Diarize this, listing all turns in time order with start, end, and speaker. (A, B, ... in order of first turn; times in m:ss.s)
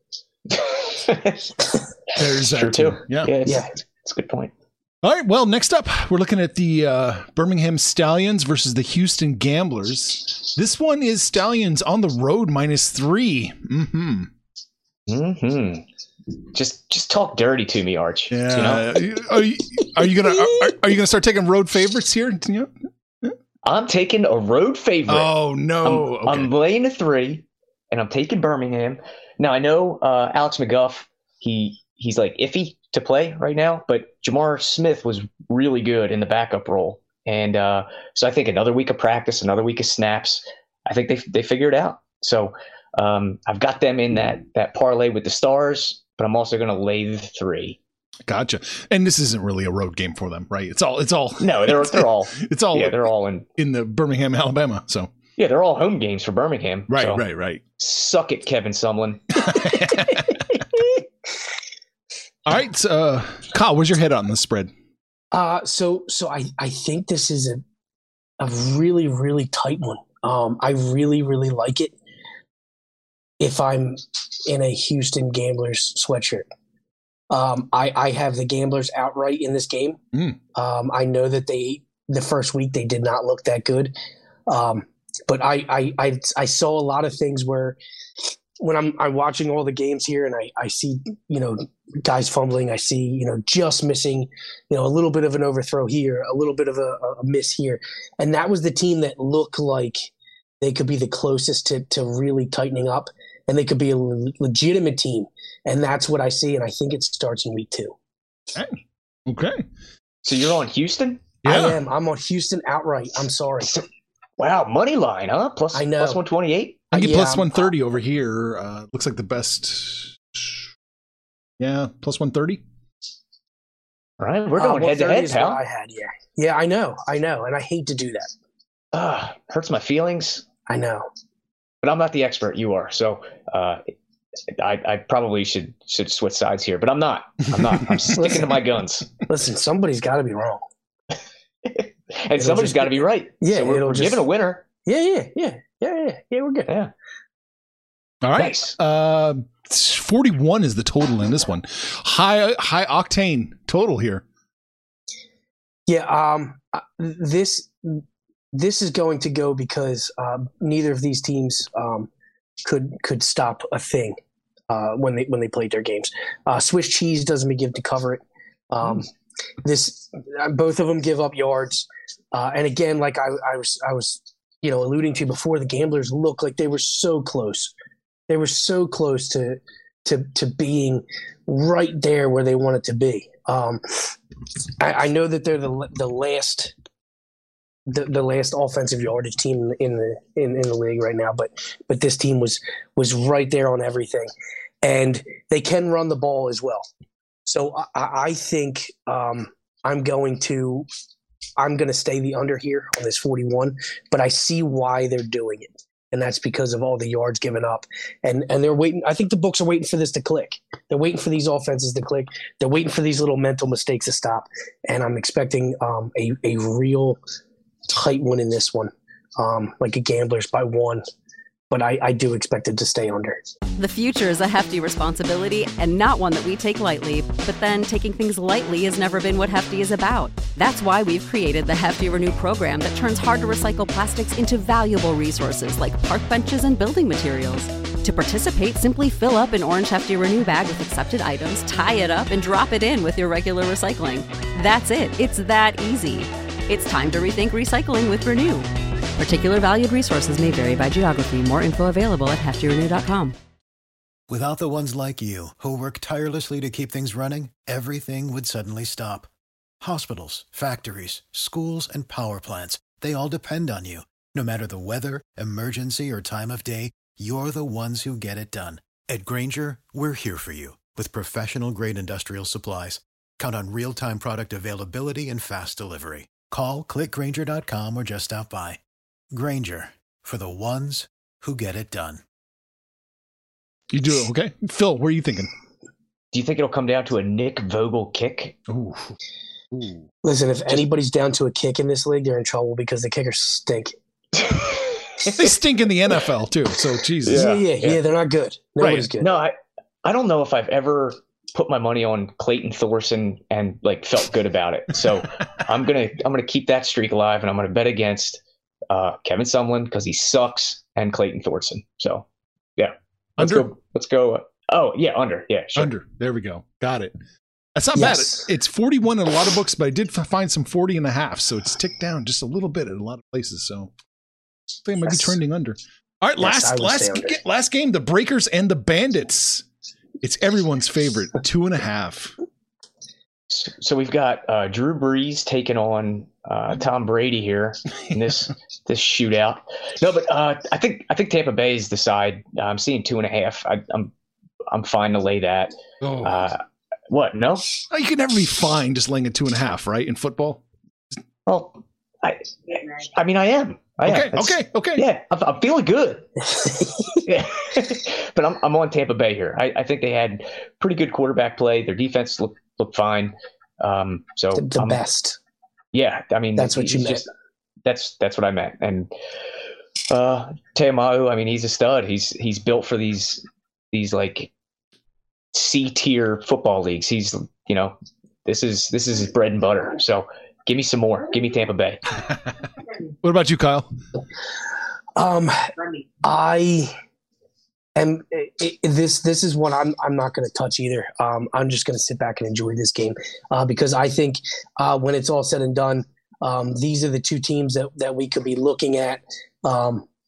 0:00.6-0:01.5 A
0:02.2-0:03.3 B
0:02.4-0:04.5 A
0:05.0-0:14.3 B
0:15.1-0:15.8 A
0:16.5-0:18.9 A
0:18.3-0:22.7 B
0:23.6-0:25.3 A
0:25.1-0:26.5 B
0:25.8-0:47.8 A
0:48.3-0:53.0 B
0:51.4-0:53.5 A
0:53.6-0:55.1 B
0:55.4-0:57.2 A
0:56.9-0:57.6 B
0:57.8-0:59.4 A
0:59.4-1:00.6 B
1:02.5-1:04.7 B
1:05.3-1:07.6 C
1:08.4-1:12.0 C
1:13.4-1:16.5 C
1:17.3-1:20.0 C
1:20.6-1:23.9 C
1:24.5-1:27.8 C
1:28.6-1:40.1 C
1:40.6-1:48.0 C
1:48.5-1:49.7 B
1:50.2-1:51.4 A
1:51.4-1:51.8 B
1:51.4-1:53.7 C
1:54.4-1:56.9 A
1:55.7-1:56.2 C
1:56.9-2:00.6 B
1:56.9-1:57.6 C
2:01.6-2:02.6 B
2:04.2-2:05.6 A
2:04.6-2:08.3 C
2:08.9-2:10.4 A
2:10.7-2:11.1 C
2:11.8-2:13.8 A
2:14.6-2:19.1 A
2:18.1-2:18.5 C
2:19.3-2:20.6 C
2:21.7-2:24.6 A
2:22.4-2:24.2 C
2:24.8-2:26.7 C
2:28.2-2:34.2 B
2:28.4-2:28.8 A
2:35.9-2:42.1 C
2:42.6-2:44.2 C
2:44.7-2:49.1 C
2:49.6-2:57.7 C
2:58.3-3:04.1 C
3:04.8-3:06.7 C
3:07.9-3:14.3 C
3:14.8-3:16.9 C
3:17.5-3:20.9 C
3:21.6-3:37.2 C
3:37.9-3:41.0 C
3:41.7-3:43.4 C
3:43.8-4:13.4 D
4:14.3-4:19.3 E
4:19.8-4:38.8 E
4:39.3-4:42.2 E
4:43.9-4:45.5 B
4:46.3-4:48.6 A
4:48.7-4:49.2 B
4:49.7-4:50.1 B
4:50.2-4:54.0 C
4:54.4-4:55.5 A
4:55.3-4:57.4 B
4:57.2-4:58.0 A
4:57.3-4:59.3 C
4:58.8-4:59.1 B
4:59.2-5:12.2 A
5:12.8-5:15.9 A
5:13.4-5:13.7 B
5:15.8-5:17.2 B
5:17.8-5:23.9 B
5:18.0-5:18.5 C
5:24.8-5:29.6 B
5:25.1-5:25.4 C
5:26.4-5:27.4 C
5:30.2-5:32.3 B
5:33.5-5:44.1 A
5:38.0-5:38.5 B
5:44.7-5:47.8 A
5:46.0-5:46.4 B
5:47.9-5:50.6 B
5:51.5-5:56.3 A
5:54.0-5:55.0 B
5:56.5-5:57.2 C
5:57.2-6:05.0 A
6:04.6-6:05.4 C
6:05.9-6:07.3 A
6:06.6-6:07.2 C
6:07.8-6:09.1 A
6:10.1-6:14.5 A
6:15.5-6:22.0 A
6:23.2-6:23.9 B
6:25.2-6:26.9 C
6:28.0-6:40.1 C